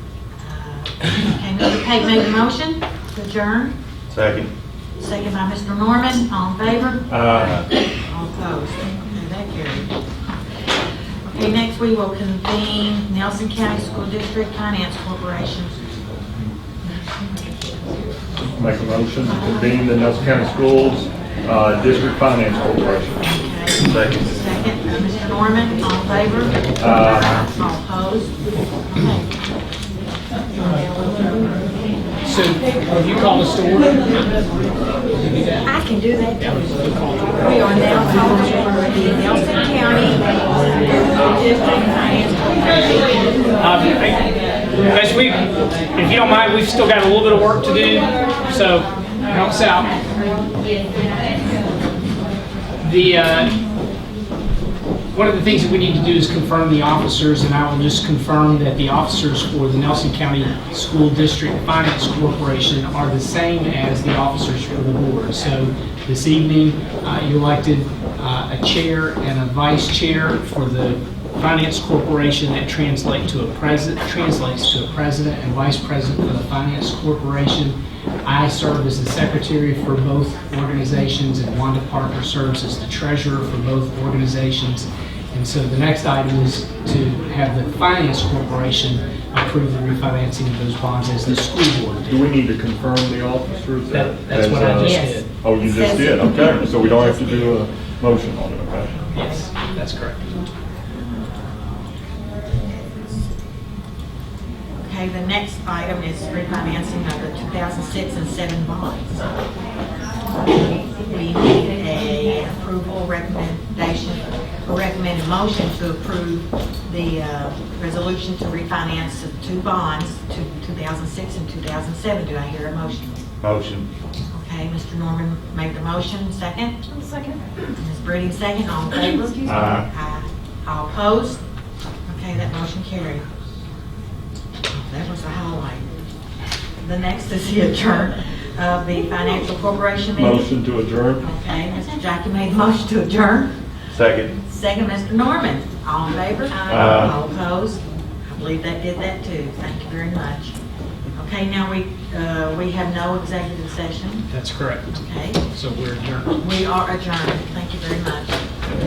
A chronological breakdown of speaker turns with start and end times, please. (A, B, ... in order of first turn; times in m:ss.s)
0:00.4-0:03.8 A
0:04.1-0:04.5 B
0:05.0-0:09.9 A
0:07.1-0:07.6 B
0:11.2-0:15.8 A
0:18.5-0:23.2 C
0:23.2-0:29.3 A
0:23.8-0:24.4 B
0:26.8-0:27.4 C
0:30.5-0:31.5 A
0:32.2-0:34.3 D
0:35.1-0:35.7 D
0:35.6-0:36.7 A
0:36.4-0:38.0 D
0:37.4-0:43.1 A
0:43.6-0:50.0 D
0:52.8-0:53.6 D
0:55.1-1:32.2 D
1:32.1-1:38.9 C
1:33.9-1:35.3 D
1:34.8-1:37.6 A
1:38.9-1:39.5 A
1:39.1-1:40.4 D
1:44.8-1:49.3 A
1:50.4-2:03.2 A
2:03.4-2:03.9 B
2:04.3-2:11.4 A
2:09.4-2:09.8 B
2:12.1-2:13.2 A
2:14.7-2:15.9 A
2:16.8-2:20.5 A
2:20.2-2:21.2 C
2:21.2-2:23.5 A
2:23.9-2:24.3 B
2:24.3-2:30.6 A
2:26.7-2:27.1 B
2:31.2-2:34.3 A
2:34.3-2:36.3 D
2:34.9-2:35.4 A
2:36.4-2:38.4 A